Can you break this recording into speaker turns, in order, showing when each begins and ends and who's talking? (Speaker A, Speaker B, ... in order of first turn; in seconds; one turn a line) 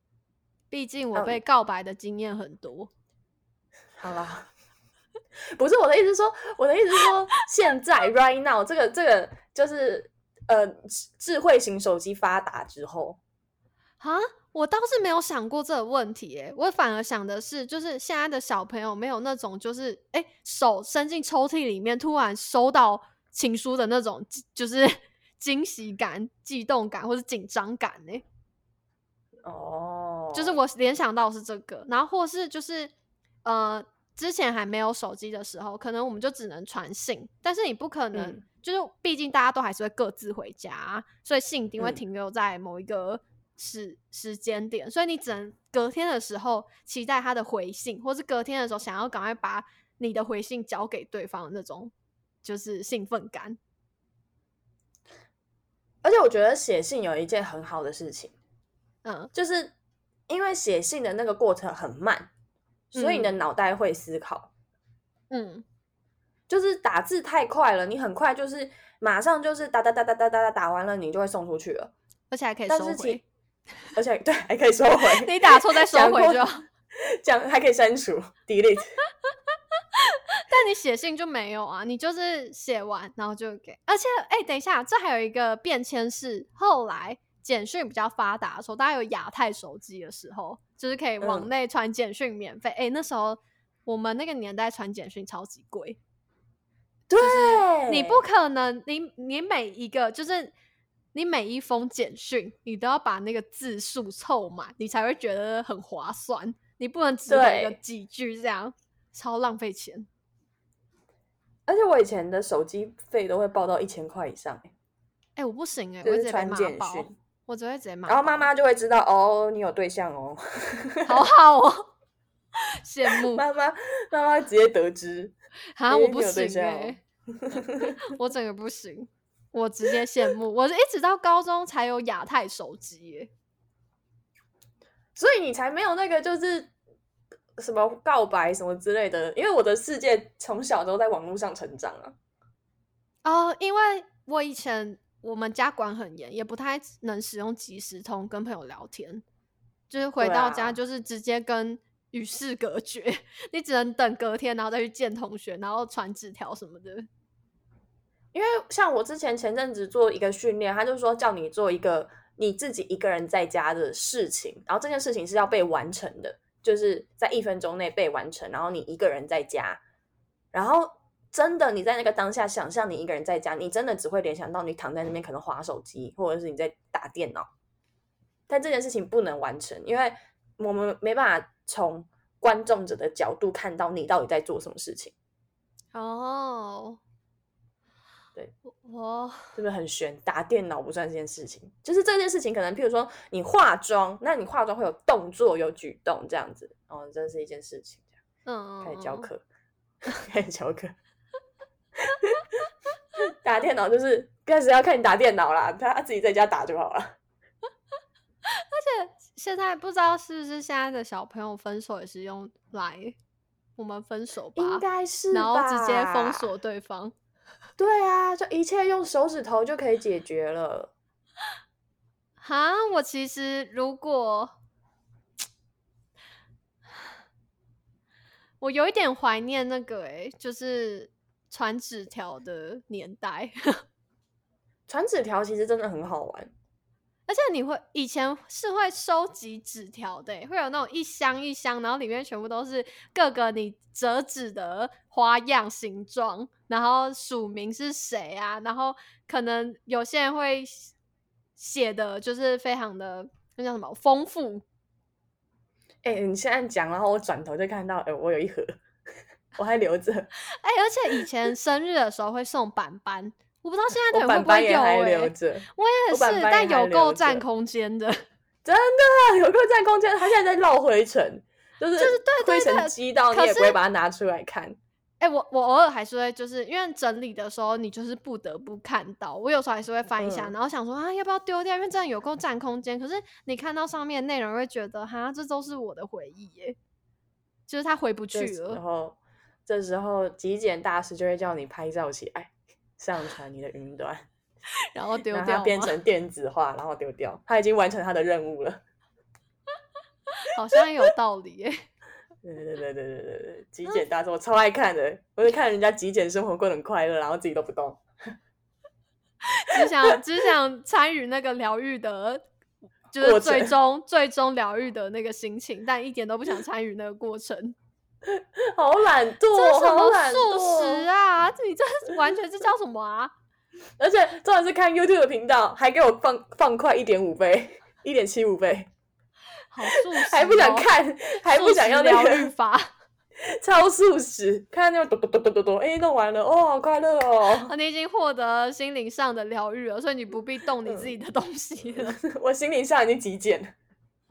Speaker A: 0.7-2.9
Speaker B: 1.1-1.4
Speaker B: 4.0-4.5
Speaker B: 5.4-13.2
Speaker A: 14.0-28.2
Speaker B: 29.4-30.6
Speaker A: 30.3-32.9
Speaker A: 33.5-51.9
Speaker B: 38.1-38.4
Speaker A: 52.4-53.6
Speaker B: 56.0-58.4
Speaker A: 59.0-59.3
Speaker B: 59.3-59.7
Speaker B: 60.3-62.3
Speaker B: 62.9-64.5
Speaker A: 63.0-63.3
Speaker A: 65.3-65.7
Speaker B: 66.5-71.9
Speaker A: 72.3-73.2
Speaker B: 72.7-73.2
Speaker B: 74.0-78.9
Speaker A: 75.1-76.7
Speaker A: 80.0-96.0
Speaker B: 91.2-91.5
Speaker B: 97.1-98.2
Speaker A: 97.2-100.5
Speaker A: 101.1-110.1
Speaker B: 107.3-107.8
Speaker B: 111.7-114.7
Speaker A: 115.4-118.5
Speaker B: 116.0-117.2
Speaker B: 118.1-121.2
Speaker A: 121.1-121.9
Speaker A: 122.6-123.4
Speaker B: 123.1-125.3
Speaker A: 125.8-127.0
Speaker B: 125.9-128.0
Speaker A: 127.8-133.3
Speaker B: 135.2-136.7
Speaker B: 137.6-142.2
Speaker A: 143.2-149.2
Speaker A: 149.9-157.1
Speaker B: 150.2-150.8
Speaker B: 158.3-169.8
Speaker B: 170.5-177.5
Speaker B: 178.5-185.1
Speaker A: 185.9-187.0
Speaker A: 188.8-189.5
Speaker B: 189.6-198.1
Speaker A: 198.5-199.3
Speaker B: 198.8-199.4
Speaker B: 200.1-200.9
Speaker B: 202.1-202.4
Speaker B: 203.3-207.2
Speaker A: 208.5-213.2
Speaker A: 213.8-217.1
Speaker B: 214.6-216.5
Speaker B: 217.8-220.9
Speaker A: 222.4-224.5
Speaker A: 228.6-233.8
Speaker B: 234.9-236.5
Speaker A: 237.3-250.9
Speaker A: 251.6-254.6
Speaker B: 256.0-258.8
Speaker B: 259.6-260.3
Speaker A: 260.5-268.2
Speaker B: 264.1-267.4
Speaker B: 268.6-274.8
Speaker A: 272.0-273.8
Speaker A: 275.2-286.8
Speaker B: 280.2-280.5
Speaker A: 287.7-288.8
Speaker B: 288.3-294.3
Speaker A: 294.9-296.0
Speaker B: 295.3-298.8
Speaker A: 300.4-301.8
Speaker B: 302.4-308.3
Speaker A: 309.4-312.4
Speaker B: 309.7-310.2
Speaker A: 313.1-317.8
Speaker B: 313.2-313.7
Speaker B: 318.3-321.1
Speaker A: 319.5-323.3
Speaker B: 324.0-328.9
Speaker A: 329.7-330.9
Speaker B: 329.9-332.5
Speaker A: 331.5-332.9
Speaker B: 333.4-337.7
Speaker A: 337.6-342.2
Speaker B: 342.0-343.8